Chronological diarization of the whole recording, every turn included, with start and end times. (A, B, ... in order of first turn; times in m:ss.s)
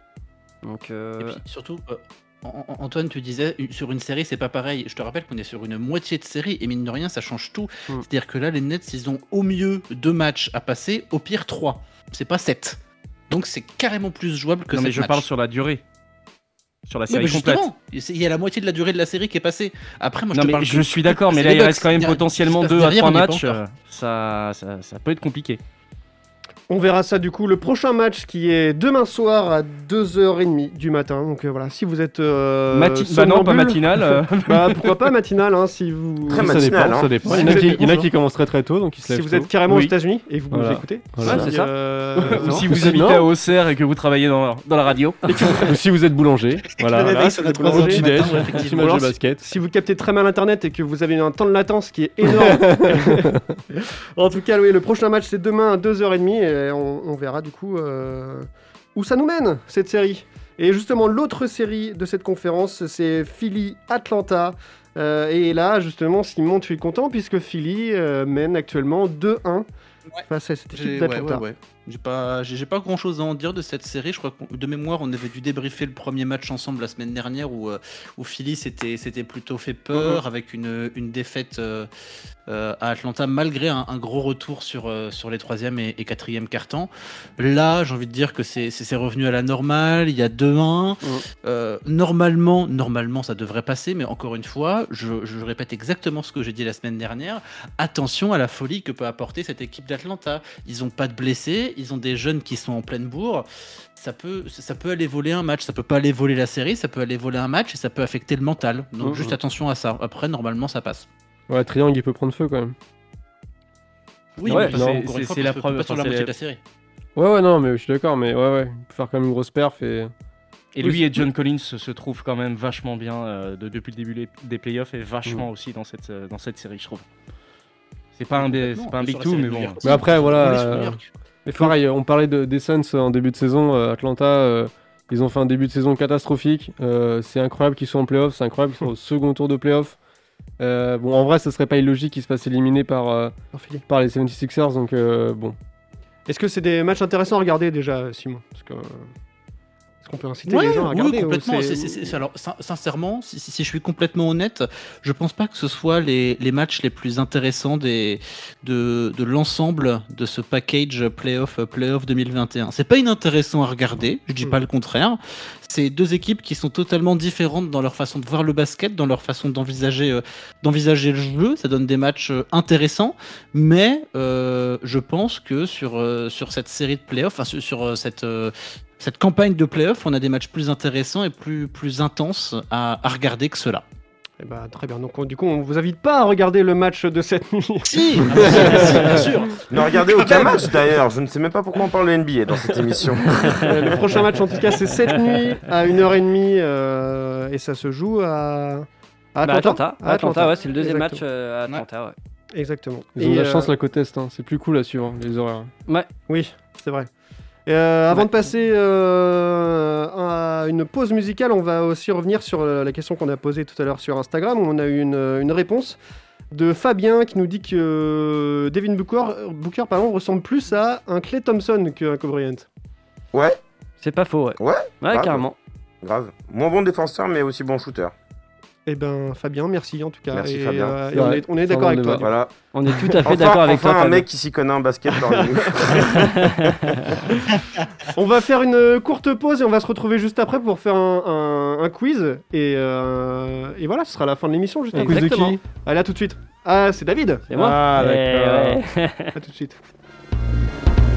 0:00.6-0:01.4 A
0:01.2-0:12.8 B
0:13.3-0:15.3 B
0:14.7-0:15.8 C
0:16.9-0:17.6 C
0:17.1-0:23.6 B
0:20.3-0:25.6 C
0:26.7-0:38.1 D
0:32.7-0:35.1 C
0:36.3-0:37.3 E
0:36.3-0:39.9 F
0:39.0-0:42.7 D
0:40.5-0:41.5 F
0:41.2-0:41.7 A
0:42.2-0:45.2 C
0:42.2-0:43.3 F
0:42.4-0:42.6 A
0:45.3-0:45.7 D
0:45.3-0:49.4 F
0:46.8-0:49.1 B
0:46.9-1:09.7 D
0:52.3-0:53.6 F
1:10.1-1:21.9 B
1:10.3-1:11.4 D
1:19.9-1:20.2 D
1:22.5-1:51.1 B
1:49.0-1:49.4 A
1:51.5-1:52.8 F
1:54.4-1:56.6 B
1:54.5-1:54.7 A
1:54.5-1:56.3 C
1:54.7-1:55.0 F
1:57.2-2:00.1 F
2:00.8-2:07.0 C
2:08.2-2:09.9 C
2:08.4-2:11.1 B
2:09.8-2:20.0 F
2:20.6-2:23.4 F
2:23.5-2:23.8 D
2:23.9-2:25.6 F
2:26.3-2:29.1 D
2:30.0-2:32.2 D
2:30.5-3:03.8 B
3:04.4-3:09.3 D
3:07.9-3:09.6 B
3:09.7-3:13.8 E
3:10.2-3:10.7 D
3:13.4-3:21.2 D
3:19.4-3:22.2 A
3:22.5-3:23.7 D
3:23.2-3:25.7 F
3:26.3-3:27.1 D
3:27.7-3:36.0 D
3:36.5-3:42.7 D
3:43.3-3:43.6 E
3:44.0-3:45.6 A
3:44.6-3:45.4 E
3:46.0-3:48.1 E
3:48.9-3:52.3 D
3:50.3-3:51.0 E
3:51.1-3:52.3 F
3:52.2-3:52.5 E
3:52.7-3:54.2 A
3:53.2-3:56.6 E
3:55.3-3:56.2 D
3:58.1-4:07.7 D
4:05.0-4:05.2 A
4:05.0-4:05.6 F
4:07.5-4:09.4 A
4:07.5-4:08.8 F
4:09.4-4:09.8 D